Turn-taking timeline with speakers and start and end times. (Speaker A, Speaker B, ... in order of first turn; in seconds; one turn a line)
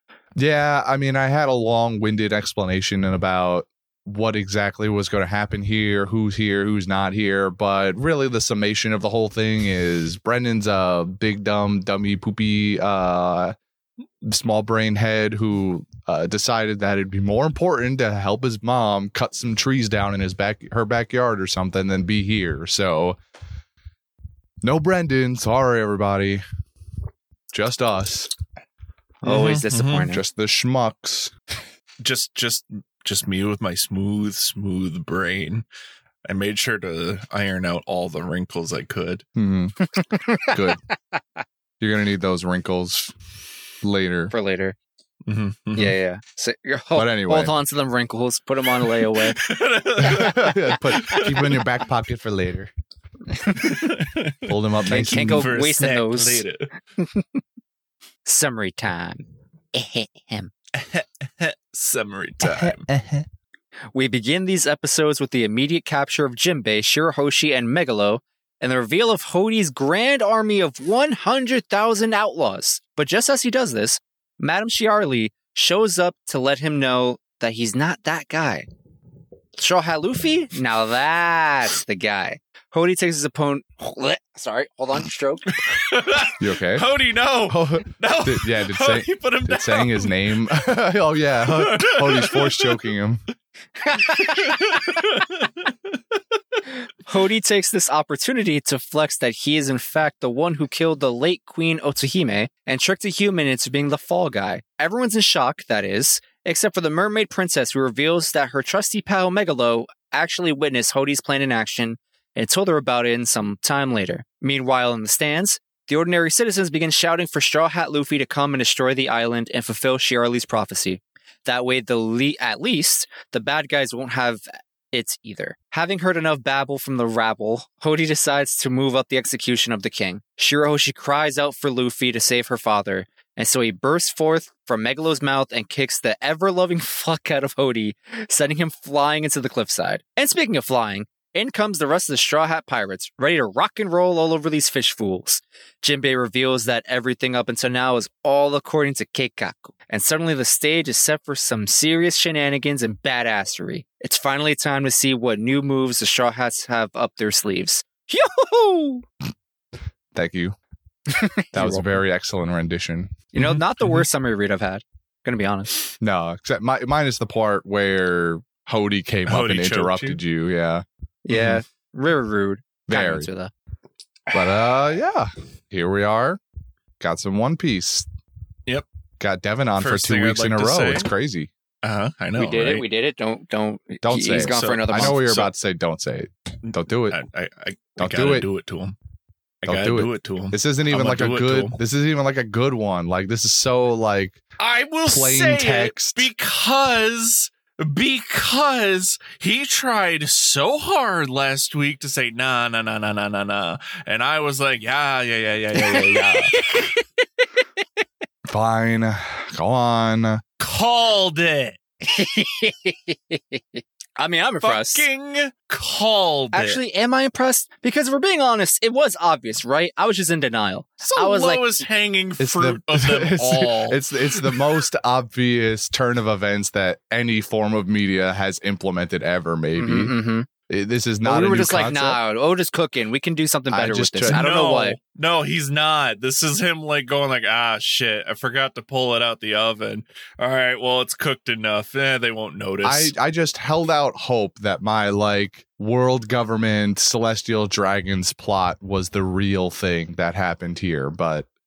Speaker A: 0.4-13.5
Speaker A: 14.2-23.2
Speaker A: 24.6-26.4
Speaker A: 27.5-28.3
Speaker B: 29.2-30.2
Speaker C: 29.2-30.1
Speaker A: 30.1-31.3
Speaker C: 32.0-35.6
Speaker C: 36.3-39.2
Speaker A: 39.4-39.8
Speaker B: 39.8-40.8
Speaker A: 40.5-40.8
Speaker A: 41.8-43.1
Speaker A: 43.8-44.3
Speaker B: 44.3-44.8
Speaker C: 45.2-46.0
Speaker B: 45.7-49.4
Speaker A: 46.9-47.5
Speaker C: 48.8-51.7
Speaker A: 50.0-52.7
Speaker B: 50.9-51.2
Speaker B: 53.4-53.8
Speaker C: 53.5-56.7
Speaker A: 54.5-55.5
Speaker B: 54.9-56.5
Speaker B: 57.0-57.4
Speaker B: 58.2-60.5
Speaker C: 60.7-62.9
Speaker A: 62.4-63.2
Speaker B: 63.9-78.7
Speaker B: 79.6-85.6
Speaker C: 85.7-90.1
Speaker A: 86.4-86.8
Speaker A: 87.5-93.2
Speaker C: 91.5-92.8
Speaker B: 93.8-95.0
Speaker C: 94.0-96.0
Speaker B: 97.0-159.0
Speaker A: 160.1-160.5
Speaker B: 161.1-162.0
Speaker A: 161.5-163.2
Speaker B: 163.3-165.8
Speaker C: 163.4-164.0
Speaker A: 166.0-171.6
Speaker C: 169.3-170.2
Speaker B: 171.2-173.5
Speaker A: 172.9-173.3
Speaker A: 174.3-176.4
Speaker A: 177.0-178.1
Speaker A: 179.2-181.5
Speaker C: 179.8-181.1
Speaker C: 181.8-182.8
Speaker B: 182.3-185.2
Speaker A: 184.0-187.2
Speaker C: 184.3-185.5
Speaker C: 187.1-188.9
Speaker A: 188.0-188.4
Speaker A: 189.6-194.4
Speaker C: 189.6-191.8
Speaker C: 194.6-206.6
Speaker A: 195.0-196.3
Speaker B: 205.7-207.0
Speaker A: 208.5-210.4
Speaker C: 210.6-211.8
Speaker B: 212.0-215.1
Speaker C: 214.6-216.8
Speaker B: 216.5-221.8
Speaker C: 221.0-224.8
Speaker A: 222.4-230.1
Speaker B: 229.8-230.5
Speaker A: 230.7-232.2
Speaker B: 231.2-235.0
Speaker A: 233.7-234.4
Speaker C: 234.3-243.1
Speaker A: 242.8-251.5